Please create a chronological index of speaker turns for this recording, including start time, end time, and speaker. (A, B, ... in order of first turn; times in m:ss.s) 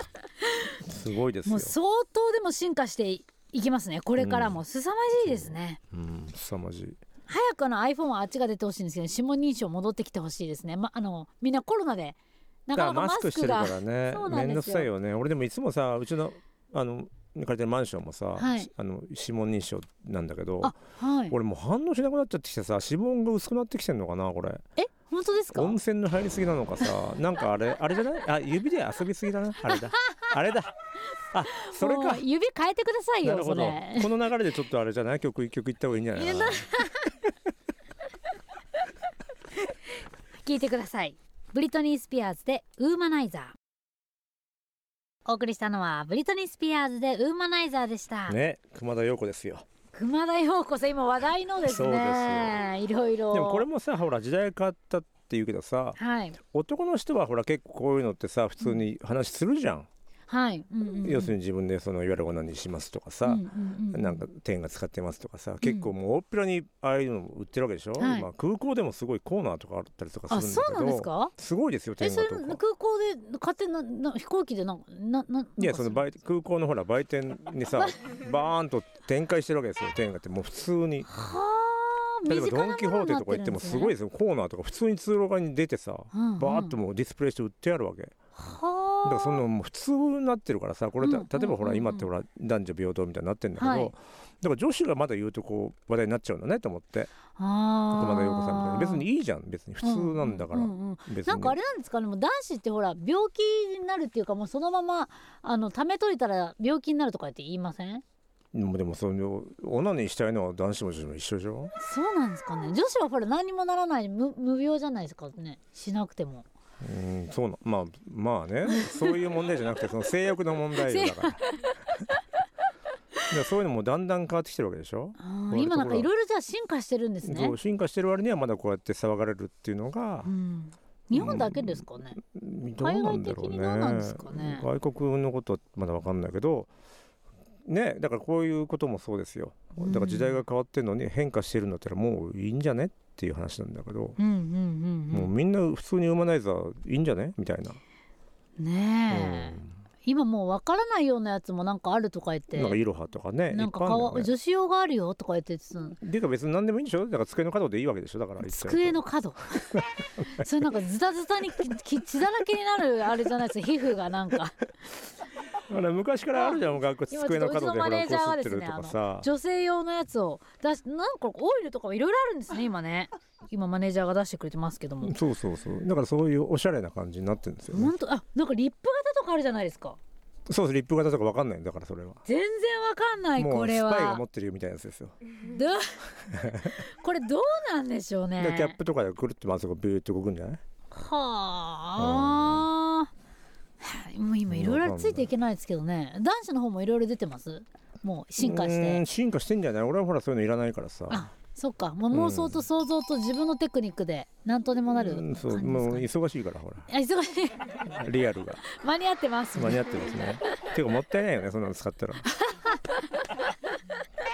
0:00.4-0:00.8 A
0:00.8-0:01.8 B
0:01.5-0:05.8 A
0:04.2-0:04.6 B
0:05.2-0:07.0 B
0:07.3-0:14.9 A
0:12.8-0:20.8 B
0:18.4-0:18.7 A
0:20.6-0:21.4 A
0:21.3-0:24.6 B
0:24.8-0:25.8 A
0:25.5-0:30.7 B
0:29.7-0:30.3 A
0:31.3-0:32.2 B
0:31.5-0:34.1 A
0:33.2-0:36.7 B
0:36.1-0:37.1 A
0:40.4-0:43.6 A
0:45.2-0:48.4 A
0:48.3-0:49.6 B
0:49.9-0:53.6 A
0:51.6-0:52.6 B
0:53.3-0:59.9 B
0:56.0-0:56.4 A
1:00.3-1:01.4 A
1:01.0-1:12.6 B
1:03.2-1:04.2 A
1:05.6-1:05.9 A
1:08.0-1:08.3 A
1:10.3-1:11.3 A
1:12.0-1:16.0 A
1:15.6-1:21.1 B
1:21.1-1:23.9 A
1:22.3-1:28.1 B
1:26.1-1:26.8 A
1:28.4-1:29.4 A
1:29.0-1:37.1 B
1:31.0-1:32.1 A
1:33.6-1:33.9 A
1:37.4-1:39.1 A
1:37.9-1:41.6 B
1:39.8-1:48.0 A
1:48.5-1:51.7 B
1:51.8-1:56.5 A
1:56.8-2:01.4 B
1:58.7-1:59.2 A
2:00.8-2:01.7 A
2:03.3-2:06.1 B
2:05.2-2:07.6 A
2:07.2-2:10.3 B
2:10.2-2:12.2 A
2:11.1-2:16.7 B
2:12.8-2:14.6 A
2:17.6-2:24.2 B
2:19.8-2:20.4 A
2:24.2-2:25.3 A
2:25.1-2:27.8 B
2:28.6-2:32.8 A
2:29.1-2:29.7 B
2:32.5-2:34.3 B
2:33.5-2:36.0 A
2:36.0-2:39.0 B
2:38.4-2:44.6 A
2:39.8-2:40.4 B
2:45.7-2:49.3 B
2:46.4-2:55.1 A
2:55.0-2:57.9 B
2:57.7-3:00.0 A
3:00.5-3:02.2 B
3:02.2-3:04.2 A
3:03.4-3:05.2 B
3:05.4-3:08.8 A
3:06.3-3:06.8 B
3:08.4-3:10.6 B
3:10.9-3:13.1 A
3:12.0-3:12.7 B
3:13.8-3:19.0 A
3:14.5-3:15.3 B
3:18.4-3:21.3 B
3:21.1-3:26.1 A
3:22.1-3:22.6 B
3:24.9-3:26.9 B
3:26.9-3:27.8 A
3:27.8-3:28.6 B
3:28.6-3:30.2 A
3:29.6-3:32.3 B
3:32.3-3:33.4 A